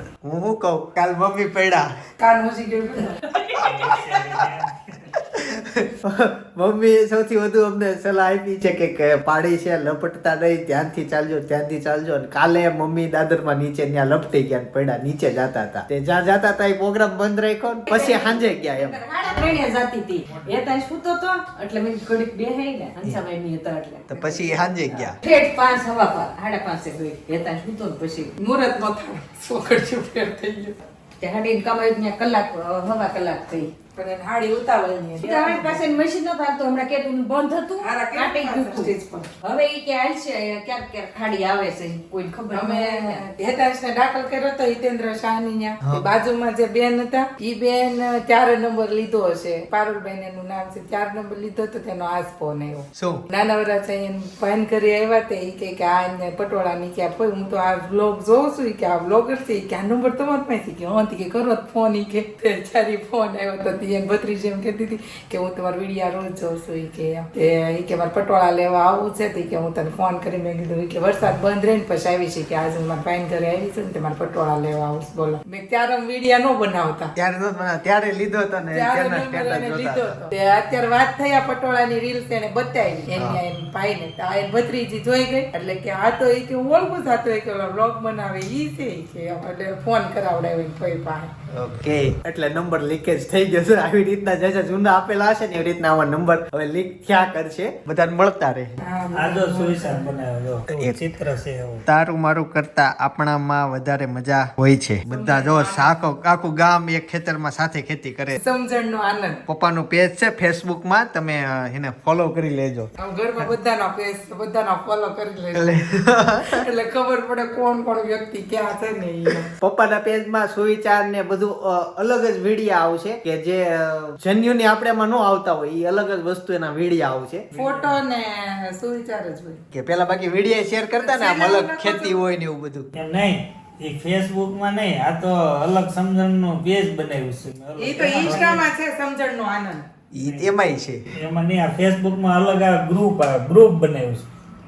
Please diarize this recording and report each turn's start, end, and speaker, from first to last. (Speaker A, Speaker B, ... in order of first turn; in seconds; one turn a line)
Speaker A: 0.2-1.9
Speaker B: 2.2-3.2
Speaker A: 3.5-4.4
Speaker C: 3.5-5.1
Speaker A: 5.2-19.0
Speaker D: 17.9-28.3
Speaker A: 24.1-25.2
Speaker B: 28.4-30.8
Speaker D: 31.2-33.7
Speaker B: 34.0-35.9
Speaker D: 35.2-43.2
Speaker B: 37.8-39.3
Speaker B: 42.5-77.1
Speaker A: 53.0-53.2
Speaker A: 77.2-80.2
Speaker B: 78.7-91.3
Speaker A: 83.2-83.4
Speaker A: 91.5-98.7
Speaker B: 98.8-100.1
Speaker C: 99.1-101.8
Speaker A: 100.7-101.0
Speaker A: 101.9-108.4
Speaker B: 105.1-105.9
Speaker B: 108.3-109.4
Speaker A: 109.5-112.9
Speaker B: 113.0-115.8
Speaker A: 115.5-116.6
Speaker B: 116.3-119.5
Speaker A: 119.6-127.5
Speaker C: 127.5-128.0
Speaker B: 127.5-129.6
Speaker A: 129.7-132.9
Speaker B: 131.0-132.2
Speaker C: 133.0-138.7
Speaker B: 137.8-139.9
Speaker A: 140.1-141.0
Speaker C: 140.2-140.5
Speaker C: 141.1-144.3